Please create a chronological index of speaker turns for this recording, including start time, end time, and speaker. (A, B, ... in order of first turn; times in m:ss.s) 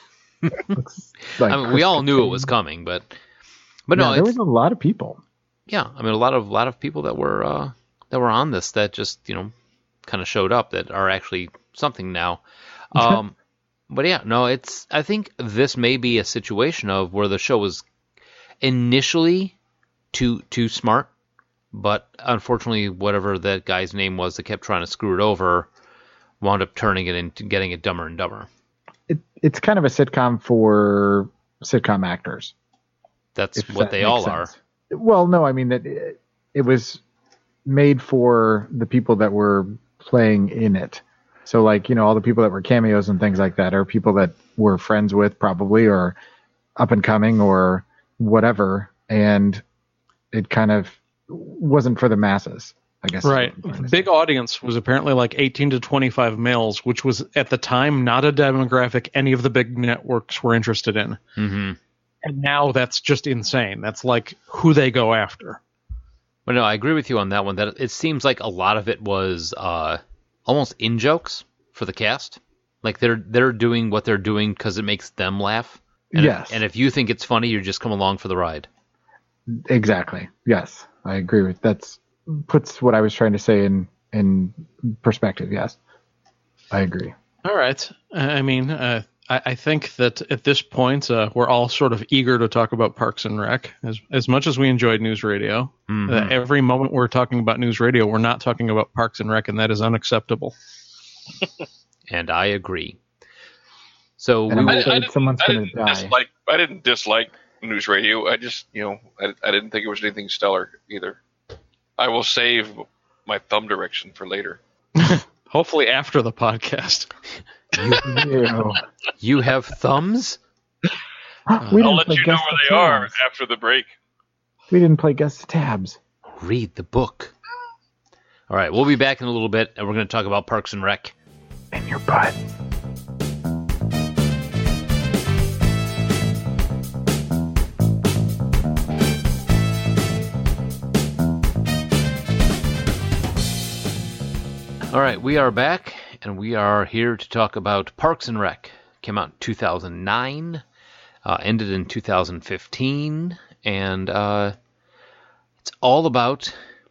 0:00.7-0:02.5 A
0:01.3-0:03.1 B
0:03.9-0:04.3 B
0:03.9-0:05.2 A
0:05.7-0:09.5 B
0:10.0-0:13.3 B
0:13.9-0:17.8 B
0:18.6-0:19.5 B
0:20.1-0:21.1 B
0:21.7-0:25.7 B
0:26.4-0:28.5 B
0:29.1-0:32.5 A
0:33.4-0:34.5 B
0:33.6-0:37.0 A
0:37.6-0:46.2 A
0:46.8-0:49.6 A
0:50.3-0:54.1 A
0:53.2-1:01.2 C
1:01.4-1:01.8 B
1:02.2-1:05.6 C
1:06.4-1:18.7 B
1:16.1-1:16.6 A
1:19.5-1:25.8 A
1:26.7-1:27.1 A
1:27.4-1:40.5 C
1:35.9-1:36.4 B
1:42.1-1:43.0 B
1:44.2-1:44.9 B
1:44.5-1:46.1 A
1:44.6-1:51.2 D
1:52.0-1:54.6 D
1:55.0-1:57.1 C
1:57.8-1:58.2 B
1:58.0-1:58.8 A
1:59.2-2:00.4 B
2:01.5-2:03.1 A
2:01.6-2:01.9 C
2:01.8-2:03.9 D
2:04.7-2:06.0 A
2:06.4-2:07.3 B
2:08.5-2:11.1 B
2:11.7-2:12.4 A
2:24.9-2:30.6 B
2:31.2-2:34.5 B
2:35.6-2:36.5 B